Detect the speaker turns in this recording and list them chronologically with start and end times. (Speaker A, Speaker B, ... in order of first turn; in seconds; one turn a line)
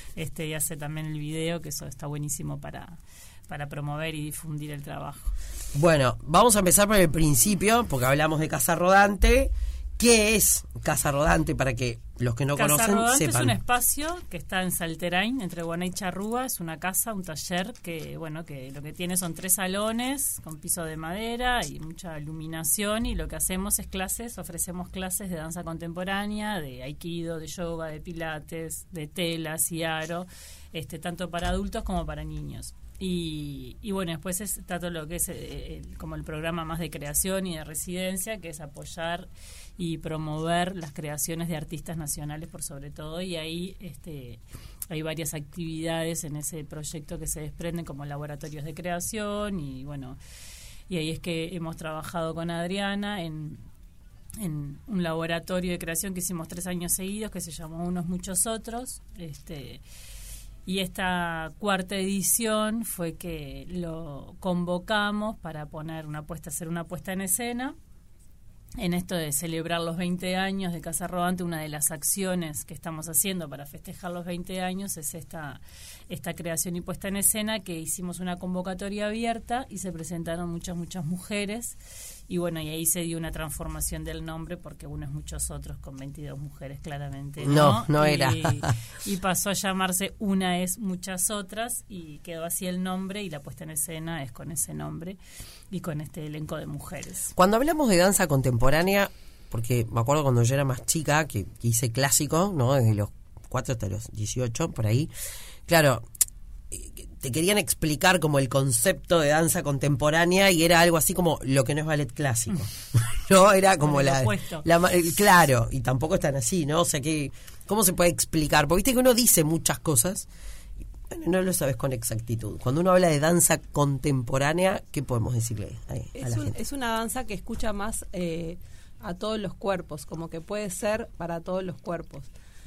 Speaker A: 0.2-5.3
Speaker B: 5.7-13.6
Speaker A: 12.6-50.2
Speaker A: 50.9-53.6
Speaker A: 54.4-59.8
Speaker A: 60.7-67.8
Speaker A: 68.8-81.8
Speaker A: 82.3-95.2
Speaker B: 87.4-88.7
Speaker A: 95.7-97.3
Speaker B: 97.3-105.1
Speaker B: 105.7-106.0
Speaker B: 106.7-120.3
Speaker A: 113.8-114.7
Speaker B: 121.1-126.5
Speaker C: 126.2-132.3